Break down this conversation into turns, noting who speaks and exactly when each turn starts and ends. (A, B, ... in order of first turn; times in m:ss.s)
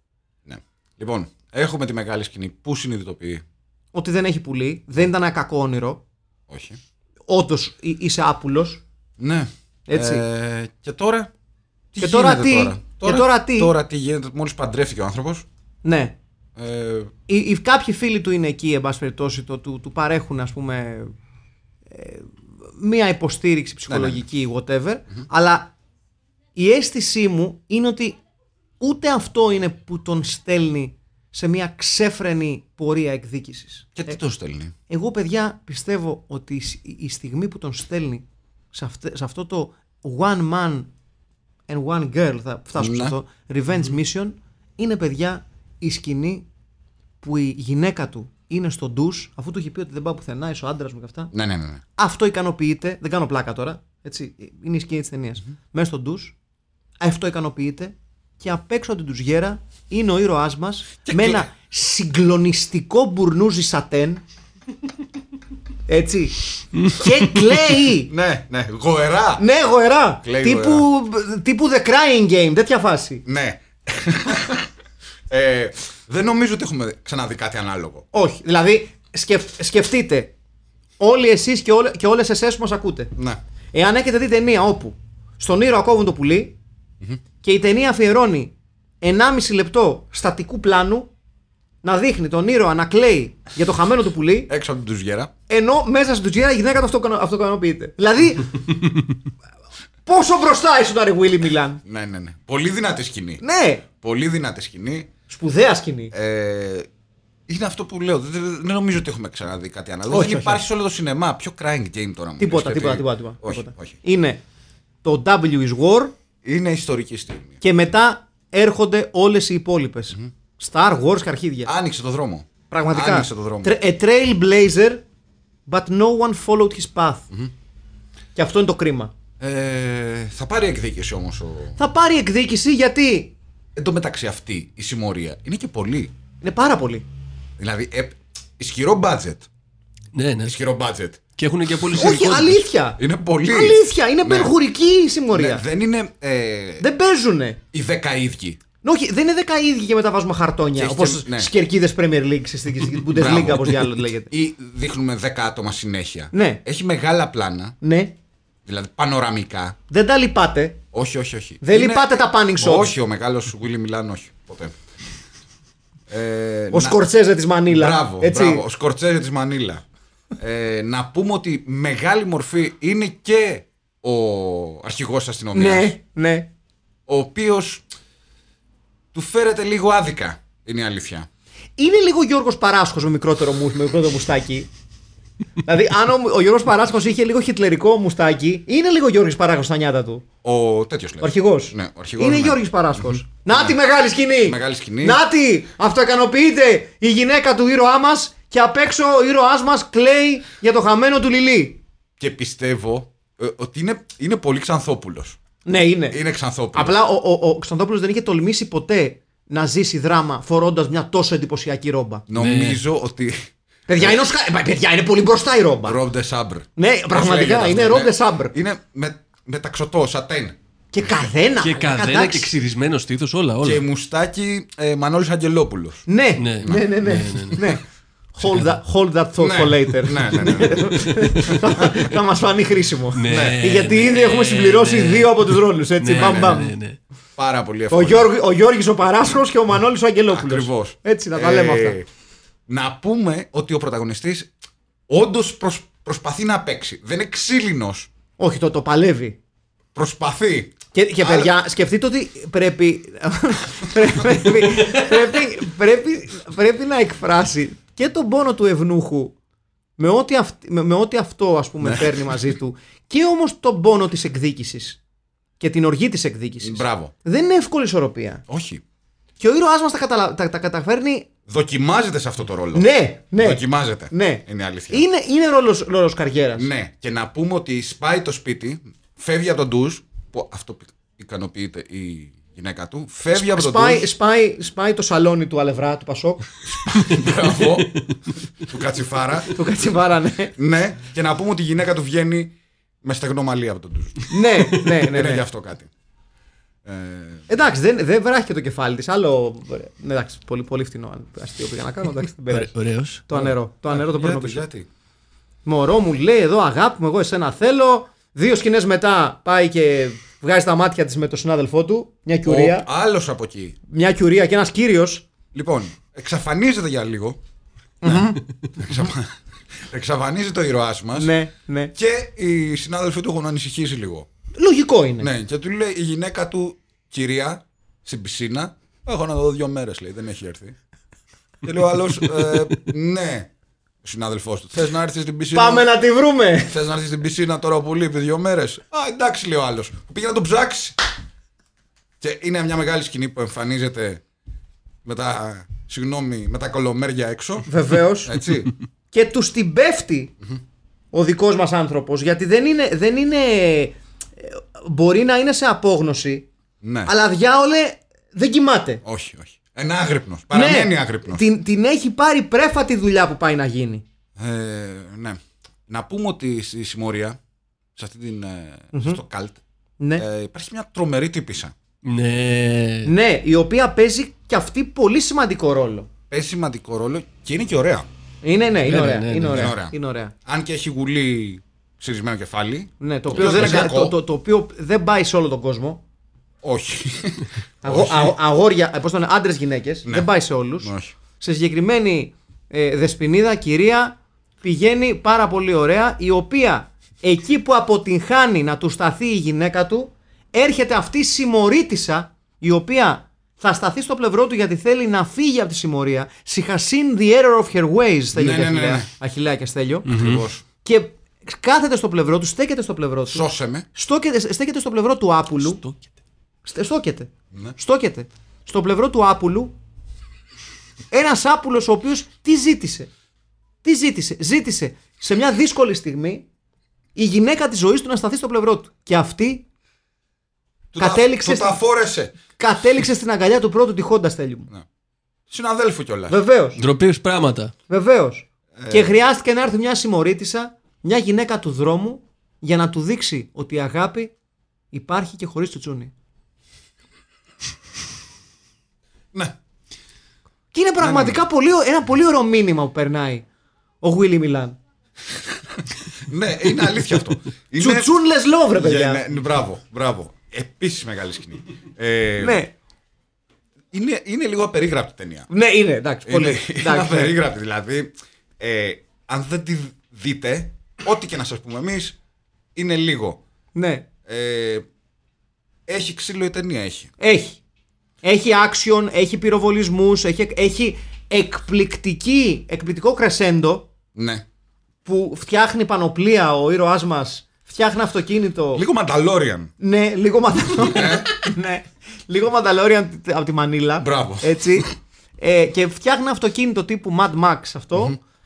0:00.5-0:03.4 A
0:03.9-0:06.0 B
0:06.5-0:06.8 A
0:07.3-0:08.8 B
0:09.2-0:11.3 A
0:09.9-0:10.2 B
0:11.9-0:15.5 A
0:12.0-0:13.7 B
0:15.8-0:16.2 B
0:16.6-0:17.1 A
0:17.3-0:21.1 B
0:21.9-0:25.7 B
0:23.9-0:24.2 A
0:26.6-0:28.2 B
0:28.8-0:34.2 B
0:34.0-0:34.8 A
0:34.9-0:40.9 B
0:41.7-0:46.4 B
0:42.8-0:43.2 A
0:47.2-0:51.3 B
0:51.3-0:51.8 A
0:52.0-0:56.4 B
0:57.0-1:04.2 B
1:01.0-1:01.5 A
1:05.9-1:08.1 B
1:08.1-1:09.4 A
1:09.4-1:13.2 B
1:10.2-1:10.9 A
1:13.3-1:14.7 A
1:15.3-1:18.1 A
1:18.1-1:20.3 B
1:21.0-1:23.1 B
1:23.7-1:26.6 B
1:27.4-1:31.1 B
1:31.8-1:34.5 B
1:34.5-1:35.3 A
1:35.5-1:38.6 B
1:40.1-1:41.8 B
1:41.8-1:43.4 A
1:43.4-1:43.8 B
1:43.9-1:45.1 A
1:45.3-1:46.1 B
1:46.1-1:46.9 A
1:47.5-1:54.0 A
1:50.1-1:50.6 B
1:52.4-1:54.4 B
1:55.0-1:56.1 B
1:56.4-1:57.6 A
1:57.6-2:01.7 B
2:01.6-2:03.7 A
2:02.7-2:05.0 B
2:05.7-2:07.3 B
2:08.4-2:09.1 B
2:09.4-2:11.8 A
2:11.8-2:13.3 B
2:13.8-2:16.1 A
2:16.4-2:17.0 B
2:17.6-2:19.5 A
2:20.1-2:20.6 C
2:20.4-2:21.2 A
2:21.4-2:22.6 C
2:21.9-2:25.6 B
2:23.0-2:24.5 A
2:25.3-2:26.8 A
2:26.8-2:27.6 B
2:27.7-2:28.6 A
2:28.8-2:34.3 B
2:30.8-2:31.5 A
2:33.0-2:37.8 A
2:36.3-2:36.6 B
2:37.8-2:38.2 B
2:38.7-2:39.8 A
2:39.9-2:40.8 B
2:40.9-2:44.7 A
2:41.6-2:43.0 B
2:46.1-2:47.0 A
2:46.7-2:48.6 B
2:47.7-2:49.8 A
2:50.4-2:55.9 A
2:55.5-2:56.5 B
2:57.1-2:57.8 A
2:59.1-3:01.3 A
3:01.8-3:04.7 B
3:05.6-3:10.2 B
3:10.4-3:13.8 A
3:11.2-3:21.8 B
3:14.4-3:15.2 A
3:22.2-3:25.4 A
3:25.6-3:26.2 B
3:26.1-3:27.0 A
3:26.7-3:32.2 B
3:32.3-3:34.2 A
3:32.4-3:32.8 C
3:33.9-3:36.0 B
3:35.8-3:40.6 A
3:36.8-3:38.5 B
3:40.9-3:42.5 B
3:41.6-3:43.8 C
3:43.6-3:46.1 A
3:46.1-3:56.7 B
3:46.4-3:47.7 C
3:49.4-3:50.9 A
3:51.0-3:51.5 C
3:53.2-3:57.0 C
3:53.2-3:53.7 A
3:56.2-3:56.6 A
3:57.4-3:58.3 A
3:57.9-4:02.0 B
4:00.3-4:02.0 A
4:02.7-4:04.5 A
4:05.1-4:08.1 A
4:08.4-4:09.4 B
4:10.0-4:11.5 A
4:10.9-4:19.3 B
4:20.0-4:25.0 B
4:21.8-4:22.2 A
4:25.6-4:28.4 B
4:26.6-4:27.1 A
4:28.5-4:28.8 A
4:29.4-4:31.3 B
4:31.5-4:35.0 A
4:32.7-4:36.7 B
4:36.6-4:44.1 A
4:43.3-4:46.5 B
4:46.6-4:48.0 A
4:48.6-4:49.6 A
4:49.5-4:50.6 B
4:50.6-4:55.9 A
4:54.3-4:55.4 B
4:56.8-4:57.5 A
4:57.5-5:02.7 B
5:02.5-5:03.4 C
5:03.3-5:04.7 B
5:03.9-5:04.9 A
5:05.6-5:12.9 B
5:12.4-5:13.8 A
5:13.9-5:15.3 B
5:15.5-5:17.4 A
5:18.0-5:18.4 B
5:18.0-5:21.3 A
5:21.2-5:21.9 B
5:22.0-5:24.3 A
5:24.6-5:25.3 B
5:25.2-5:30.8 A
5:31.6-5:33.5 A
5:34.0-5:35.9 A
5:35.5-5:36.8 B
5:36.7-5:41.1 A
5:42.2-5:44.2 A
5:45.0-5:47.7 A
5:47.7-5:48.4 B
5:48.2-5:48.7 A
5:49.1-5:50.3 B
5:51.1-5:56.5 B
5:56.8-5:57.1 A
5:57.0-5:59.0 B
5:59.0-6:01.4 A
6:00.5-6:04.0 B
6:04.4-6:07.4 A
6:08.0-6:09.6 A
6:08.9-6:09.2 B
6:10.0-6:10.2 B
6:10.2-6:11.8 A
6:12.0-6:13.1 C
6:13.0-6:16.1 B
6:16.3-6:18.1 A
6:18.4-6:20.3 B
6:18.9-6:19.7 C
6:19.5-6:24.2 A
6:23.0-6:26.0 B
6:23.4-6:23.8 C
6:26.6-6:28.4 A
6:27.8-6:50.1 B
6:30.8-6:31.1 A
6:48.3-6:49.1 A
6:50.0-6:50.4 C
6:50.0-6:50.6 A
6:50.8-6:55.8 B
6:53.3-6:53.9 A
6:55.7-6:56.0 C
6:56.6-6:59.7 B
7:01.1-7:03.1 B
7:03.8-7:06.4 B
7:07.2-7:09.6 B
7:10.9-7:12.4 A
7:11.0-7:11.8 B
7:12.6-7:14.7 B
7:15.5-7:16.4 A
7:16.3-7:16.8 B
7:16.8-7:17.7 C
7:17.9-7:24.3 B
7:18.8-7:19.2 A
7:24.9-7:26.1 B
7:30.7-7:33.4 B
7:31.0-7:31.4 A
7:34.0-7:34.8 B
7:35.8-7:38.1 A
7:37.8-7:39.2 B
7:38.7-7:42.6 A
7:42.4-7:42.7 B
7:43.9-7:45.5 A
7:45.5-7:47.3 B
7:46.3-7:52.2 A
7:52.8-7:53.4 A
7:53.8-7:54.1 B
7:54.2-7:54.8 A
7:55.9-7:57.1 A
7:57.2-7:57.6 B
7:58.2-8:03.9 B
8:04.2-8:04.4 A
8:05.0-8:08.8 B
8:08.7-8:09.7 A
8:09.8-8:18.2 B
8:10.8-8:11.3 A
8:14.0-8:14.9 A